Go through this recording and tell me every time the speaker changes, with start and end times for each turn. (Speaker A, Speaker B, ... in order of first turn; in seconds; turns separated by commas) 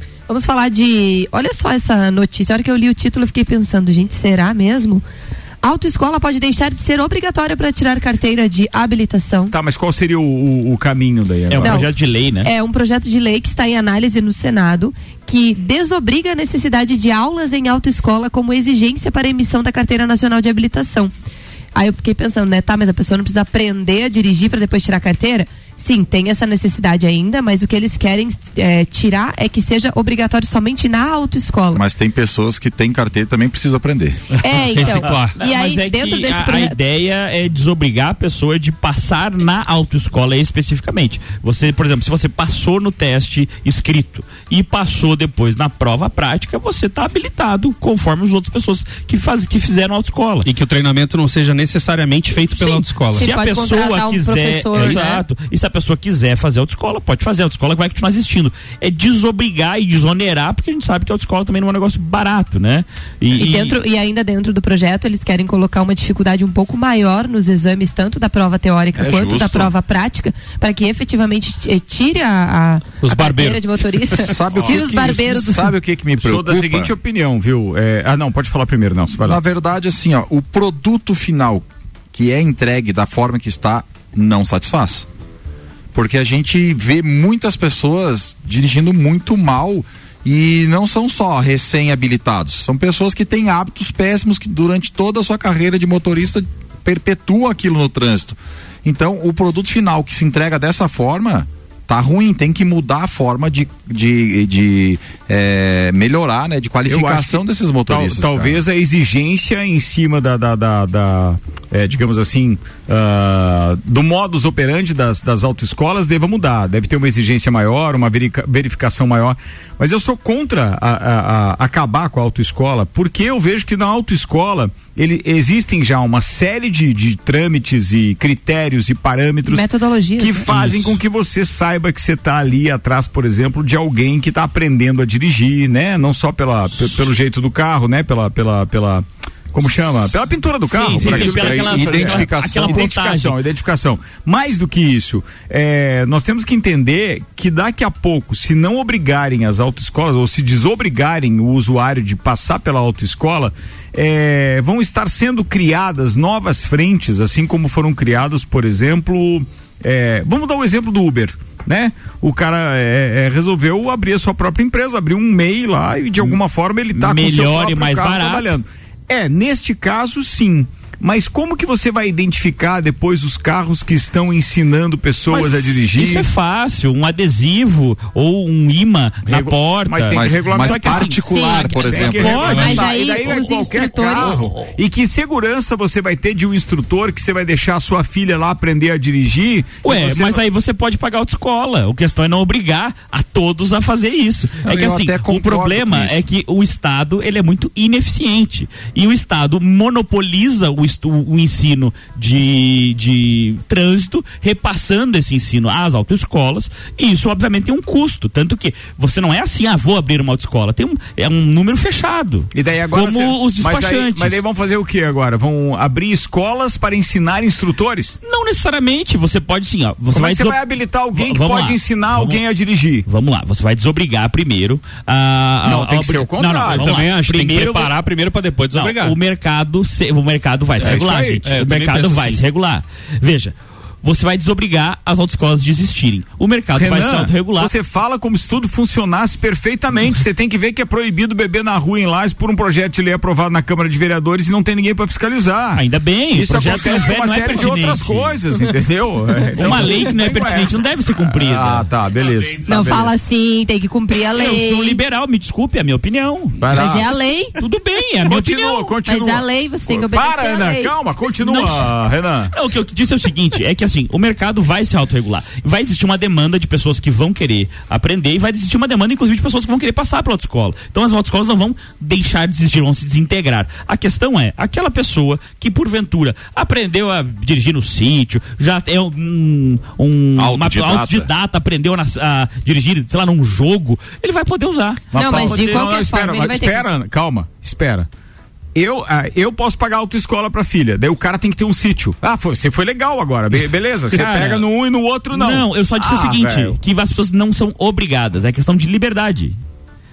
Speaker A: 0.3-5.0, Speaker A: 5.6-9.5, Speaker B: 9.5-11.8, Speaker C: 11.5-12.5, Speaker A: 11.6-11.9, Speaker A: 12.4-21.1, Speaker A: 21.7-31.8, Speaker D: 31.7-34.2, Speaker A: 34.4-36.7, Speaker E: 34.7-35.4, Speaker C: 34.8-50.5, Speaker E: 50.4-53.3, Speaker A: 52.5-55.2, Speaker C: 52.7-63.8, Speaker E: 54.8-55.1, Speaker A: 63.4-75.7, Speaker D: 69.0-69.7, Speaker E: 73.0-74.3, Speaker D: 74.1-76.9, Speaker B: 74.5-74.9, Speaker B: 76.2-79.4, Speaker D: 79.2-85.0, Speaker D: 85.9-108.6, Speaker B: 106.8-129.7, Speaker A: 129.5-130.8, Speaker B: 130.2-176.3, Speaker C: 140.7-143.4, Speaker D: 140.8-142.9, Speaker C: 166.9-168.5, Speaker C: 175.3-182.9, Speaker B: 179.2-190.4, Speaker D: 180.1-182.7, Speaker A: 181.3-181.7, Speaker E: 182.4-182.7, Speaker A: 182.4-184.5, Speaker C: 184.2-184.7, Speaker C: 189.8-214.4, Speaker D: 194.6-196.2, Speaker B: 212.5-218.2, Speaker C: 218.2-220.6, Speaker B: 220.1-223.1, Speaker C: 221.1-222.4, Speaker C: 223.1-227.9, Speaker B: 225.6-227.1, Speaker E: 226.7-229.2, Speaker C: 228.7-237.7, Speaker E: 230.8-232.4, Speaker B: 230.8-231.4, Speaker B: 236.7-253.1, Speaker C: 245.7-248.4, Speaker C: 249.6-251.9, Speaker E: 252.1-252.8, Speaker A: 252.7-255.0, Speaker C: 254.3-256.7, Speaker B: 256.6-257.1, Speaker A: 256.7-257.6, Speaker C: 257.6-258.8, Speaker B: 258.2-262.5, Speaker A: 258.9-260.9, Speaker C: 261.4-261.9, Speaker C: 262.5-285.9, Speaker D: 280.4-281.3, Speaker B: 285.1-288.1, Speaker A: 285.1-286.9, Speaker B: 288.7-296.8, Speaker C: 294.1-294.6, Speaker C: 295.3-299.5